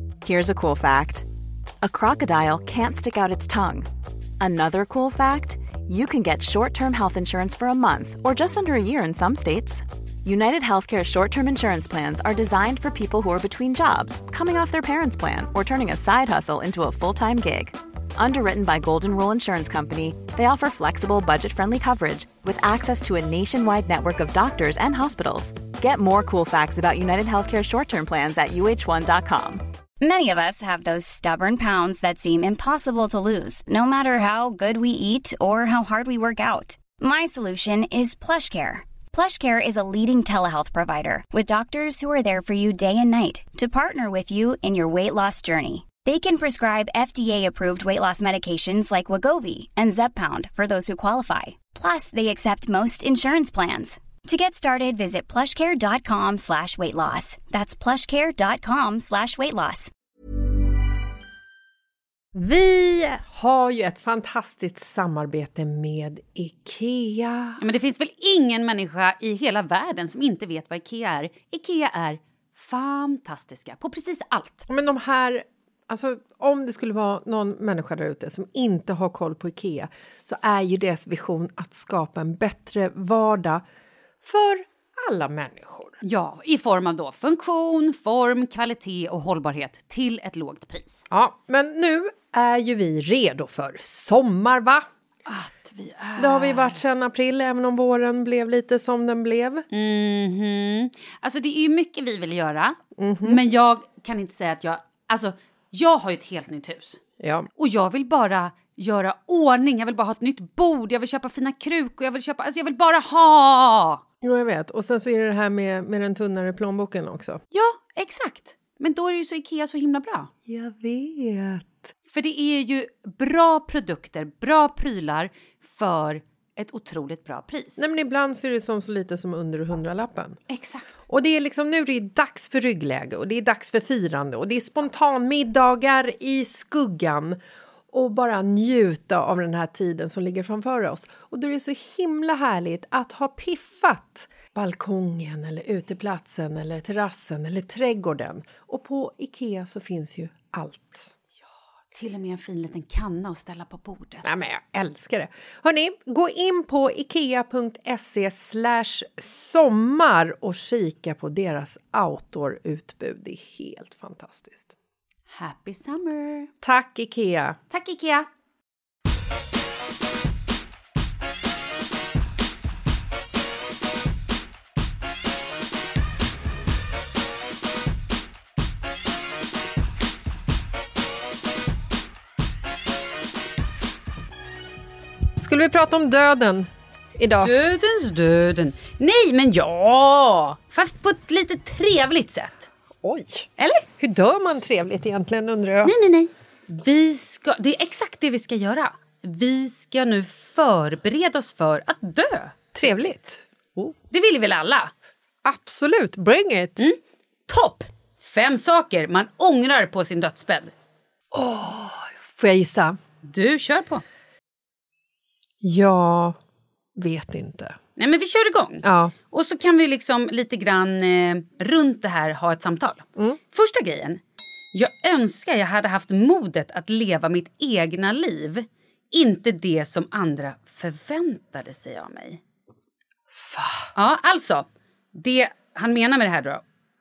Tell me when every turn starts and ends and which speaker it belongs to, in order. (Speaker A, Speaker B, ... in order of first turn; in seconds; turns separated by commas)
Speaker A: 0.2-1.2, Speaker A: 1.8-3.9, Speaker A: 4.4-29.6, Speaker B: 30.0-59.9, Speaker C: 62.3-67.6, Speaker D: 67.6-74.6, Speaker C: 74.7-83.6, Speaker C: 84.2-86.0, Speaker D: 86.0-91.0, Speaker C: 91.1-94.9, Speaker D: 95.3-96.8, Speaker C: 96.2-99.7, Speaker D: 99.7-107.0, Speaker C: 103.0-103.4, Speaker C: 107.2-107.5, Speaker D: 107.6-114.0, Speaker C: 114.2-117.4, Speaker D: 117.5-120.3, Speaker C: 120.5-121.9, Speaker D: 122.1-127.8, Speaker C: 127.8-130.4, Speaker D: 130.5-130.8, Speaker C: 131.1-137.4, Speaker C: 137.9-151.1, Speaker D: 151.9-154.3, Speaker C: 154.2-164.7, Speaker D: 165.3-166.5, Speaker C: 166.6-167.6, Speaker D: 167.7-168.3, Speaker C: 185.4-187.5, Speaker D: 187.4-192.7, Speaker C: 193.0-195.9, Speaker D: 193.6-193.8, Speaker D: 195.8-202.6, Speaker C: 202.7-203.9, Speaker D: 204.1-204.9, Speaker C: 205.4-206.9, Speaker D: 207.5-210.7, Speaker C: 211.3-213.0, Speaker D: 213.2-214.0, Speaker C: 215.6-216.3, Speaker C: 216.9-217.8, Speaker D: 218.0-224.2, Speaker C: 218.8-219.1, Speaker D: 224.7-232.4, Speaker C: 233.3-233.9, Speaker D: 233.9-236.6